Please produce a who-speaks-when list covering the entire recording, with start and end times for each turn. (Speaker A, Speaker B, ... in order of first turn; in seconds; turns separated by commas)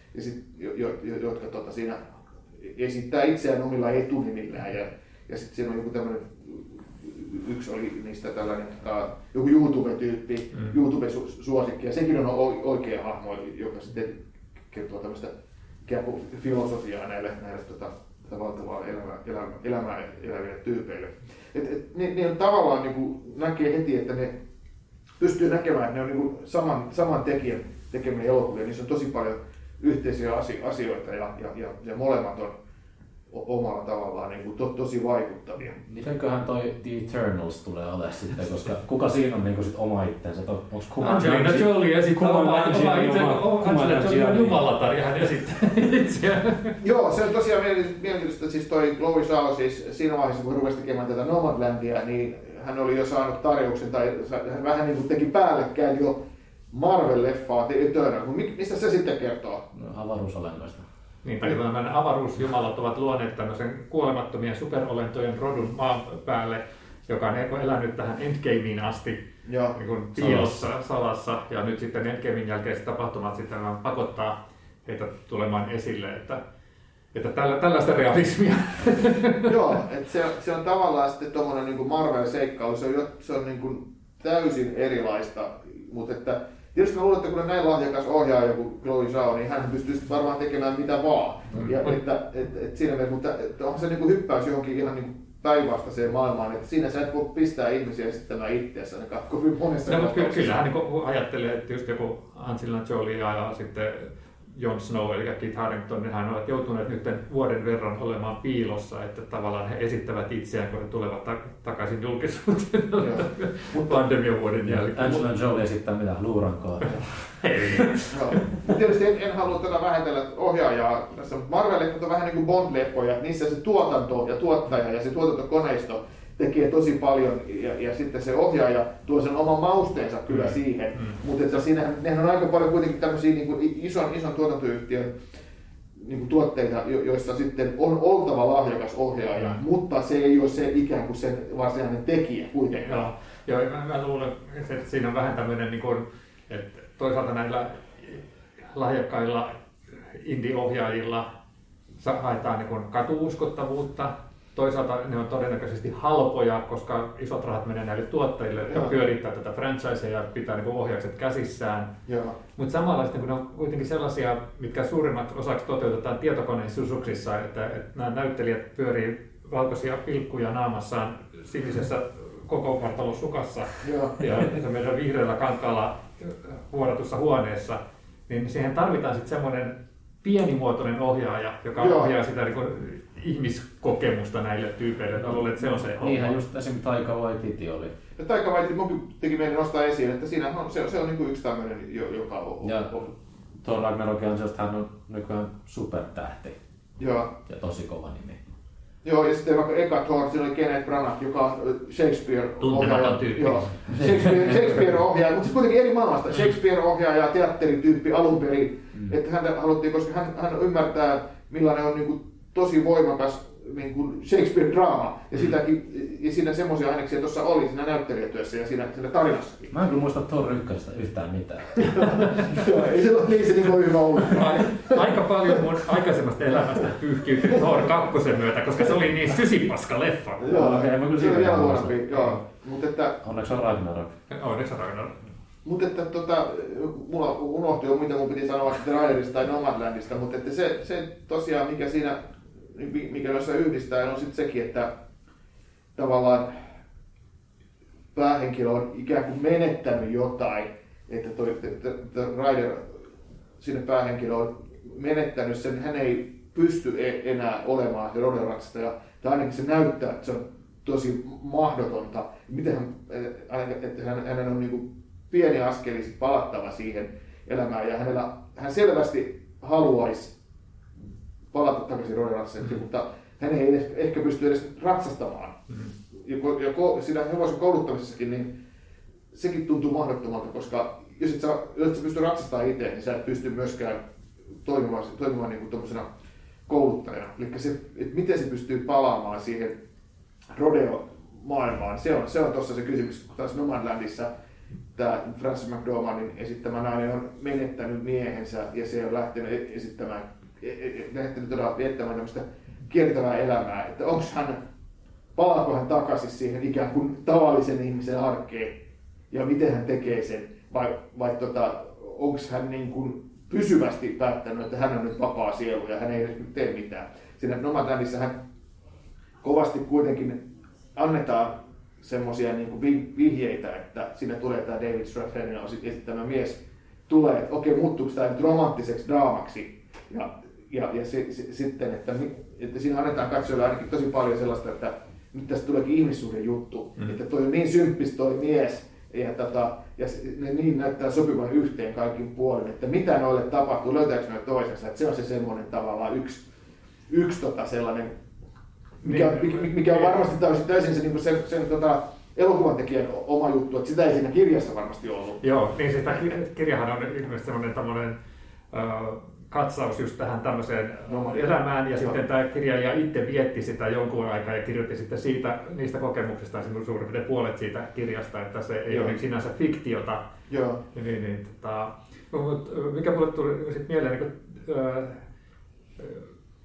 Speaker A: 0.1-14.2, Speaker A: 14.7-15.3, Speaker A: 15.8-24.4, Speaker A: 25.2-32.5, Speaker A: 33.3-35.8, Speaker B: 35.9-44.6, Speaker C: 41.0-46.8, Speaker A: 46.8-56.2, Speaker A: 56.7-59.6, Speaker B: 59.7-60.9, Speaker C: 61.2-69.2, Speaker A: 69.5-69.8, Speaker C: 69.8-76.4, Speaker B: 70.2-70.6, Speaker C: 77.1-79.5, Speaker A: 79.5-100.6, Speaker C: 91.5-91.9, Speaker C: 99.9-115.3, Speaker A: 113.0-114.0, Speaker B: 114.7-117.4, Speaker C: 117.4-118.6, Speaker A: 118.1-135.1, Speaker C: 130.3-131.2, Speaker A: 136.0-143.1, Speaker C: 139.3-139.6, Speaker C: 142.8-151.3, Speaker C: 152.0-161.9, Speaker A: 158.7-158.9, Speaker A: 162.1-162.4, Speaker C: 162.6-186.4, Speaker A: 173.8-174.2, Speaker A: 181.8-182.1, Speaker B: 185.2-187.9, Speaker A: 188.2-193.1, Speaker B: 192.6-193.0, Speaker B: 193.6-196.6, Speaker A: 197.0-197.3, Speaker B: 197.5-198.4, Speaker A: 199.0-219.7, Speaker C: 202.6-203.9, Speaker B: 203.9-204.5, Speaker B: 219.7-222.6, Speaker A: 222.0-225.0, Speaker C: 222.2-222.4, Speaker C: 224.3-230.5, Speaker A: 230.4-233.2, Speaker B: 230.5-232.0, Speaker B: 233.2-234.2, Speaker C: 234.3-235.2, Speaker A: 235.7-244.9, Speaker A: 245.9-246.6, Speaker A: 248.1-253.0, Speaker A: 253.6-270.3, Speaker A: 271.5-275.6, Speaker A: 276.1-278.5, Speaker A: 279.3-284.0, Speaker A: 284.6-286.1, Speaker A: 286.7-289.8, Speaker A: 290.5-294.3, Speaker A: 294.9-304.6, Speaker A: 305.4-308.8, Speaker A: 309.3-318.3, Speaker A: 319.4-320.4, Speaker A: 320.9-346.4, Speaker A: 347.1-348.1, Speaker A: 349.0-355.4, Speaker C: 349.0-350.2, Speaker C: 355.4-358.2, Speaker C: 358.7-370.2, Speaker A: 361.1-362.2, Speaker A: 368.9-369.1, Speaker A: 370.5-370.8, Speaker C: 370.9-375.2, Speaker C: 376.0-376.3